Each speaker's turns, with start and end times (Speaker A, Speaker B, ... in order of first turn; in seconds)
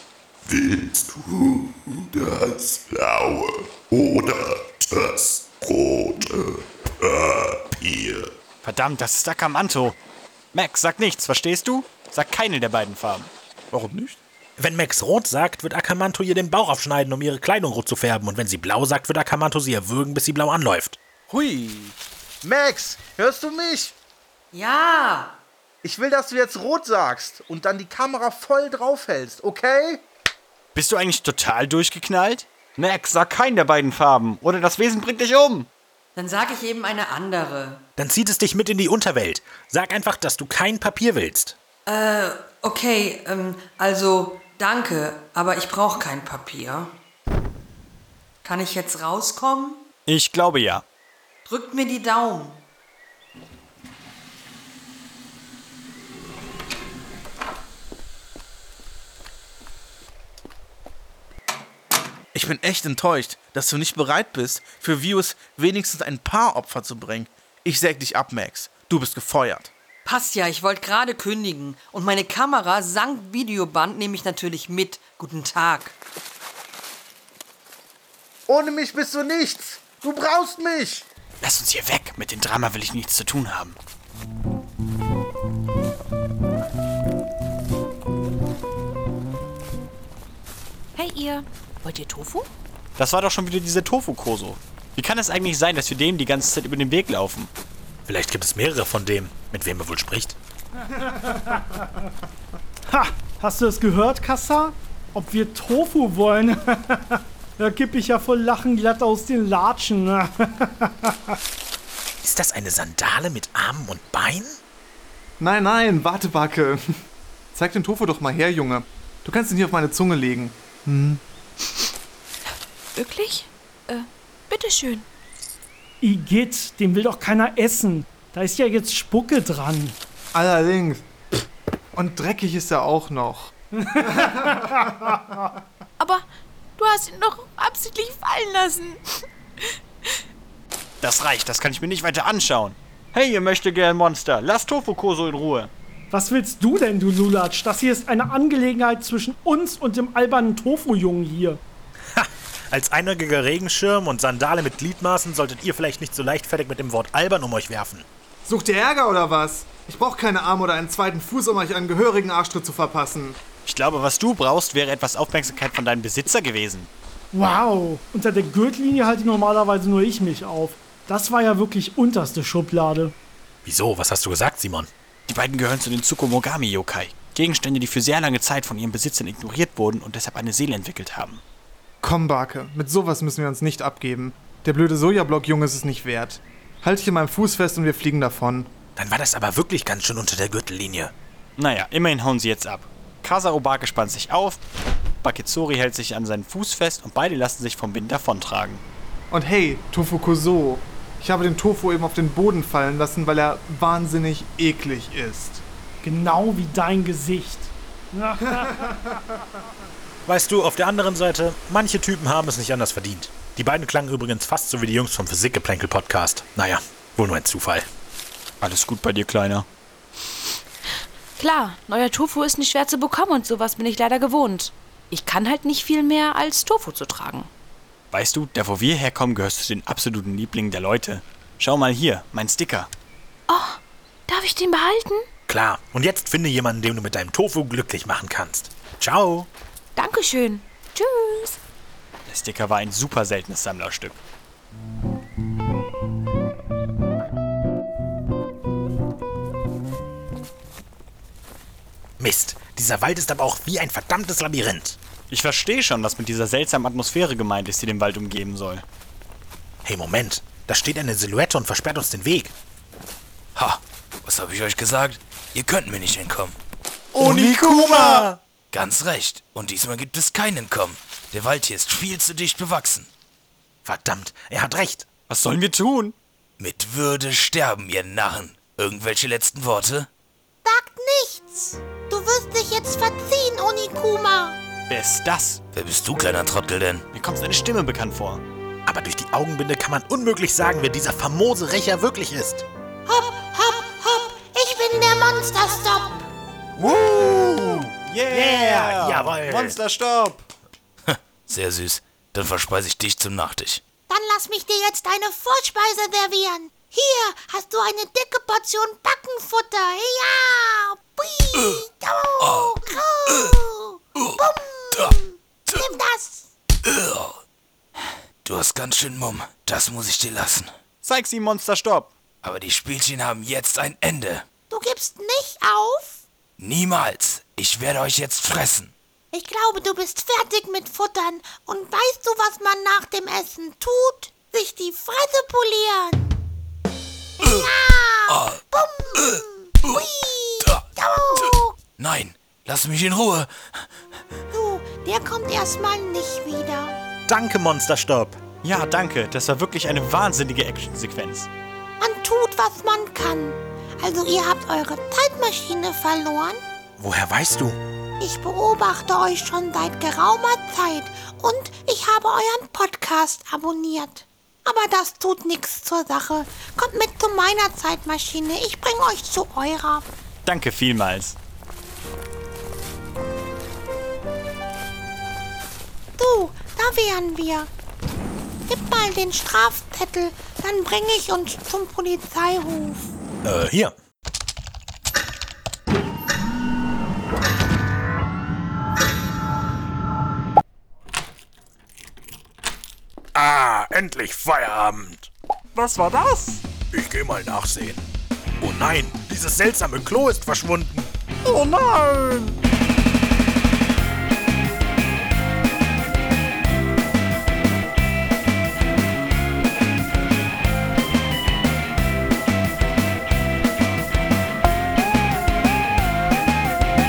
Speaker A: 0.5-8.3
Speaker B: 8.6-10.0, 10.5-13.3, 30.7-35.7, 50.1-50.8, 81.4-83.8, 93.0-97.5, 141.0-145.7, 163.6-166.9, 175.3-181.4, 191.6-194.6, 195.2-198.8, 218.6-219.7, 228.1-232.9, 242.2-244.2, 255.3-258.8, 267.2-268.2, 275.3-276.1, 284.9-285.6, 287.1-288.4, 296.8-300.5, 321.0-322.1, 348.6-351.5, 370.4-371.4, 395.7-396.6, 401.4-402.6
Speaker C: 13.7-14.2, 21.3-23.9, 25.8-30.0, 62.3-69.7, 78.5-81.0
Speaker D: 14.6-21.0, 38.0-41.6, 98.0-100.4, 112.2-114.6, 152.1-158.1, 173.6-174.9, 189.0-191.1, 210.2-217.8, 235.5-239.5, 252.2-255.0, 259.8-262.5, 267.1-268.4, 273.8-275.1, 288.9-292.6, 298.3-299.8, 347.3-348.4, 357.0-357.8, 383.4-383.9, 393.3-395.3, 396.9-398.1, 398.6-401.1
Speaker E: 24.5-25.3, 36.1-37.8, 41.9-46.9, 48.4-49.8, 51.5-52.6, 70.0-75.9
Speaker F: 91.0-92.5, 123.0-125.0, 136.0-136.2, 136.8-139.0, 221.4-227.5, 233.5-235.2, 239.9-241.6
Speaker G: 101.1-101.8, 102.9-111.4, 126.0-129.9, 134.0-134.4, 146.1-151.6, 167.3-173.1, 206.0-208.9
Speaker H: 115.4-116.8, 117.5-121.2, 130.3-131.1, 131.9-133.5, 158.4-163.4, 182.0-188.7, 199.3-205.6
Speaker I: 263.5-266.6, 267.8-268.1, 268.7-273.1, 276.6-280.1, 285.7-287.0, 301.1-303.8, 312.4-312.7, 313.3-313.5, 314.1-314.4, 315.7-316.0, 316.8-317.4, 318.4-320.7, 322.4-324.4, 326.6-328.9, 338.3-338.6, 339.1-340.0, 340.6-343.9
Speaker J: 280.6-284.6, 293.1-296.2, 304.1-316.5, 324.7-326.2, 329.3-336.3, 337.4-341.8, 344.5-347.0, 352.0-356.6, 358.2-370.0, 376.2-377.7, 378.7-383.1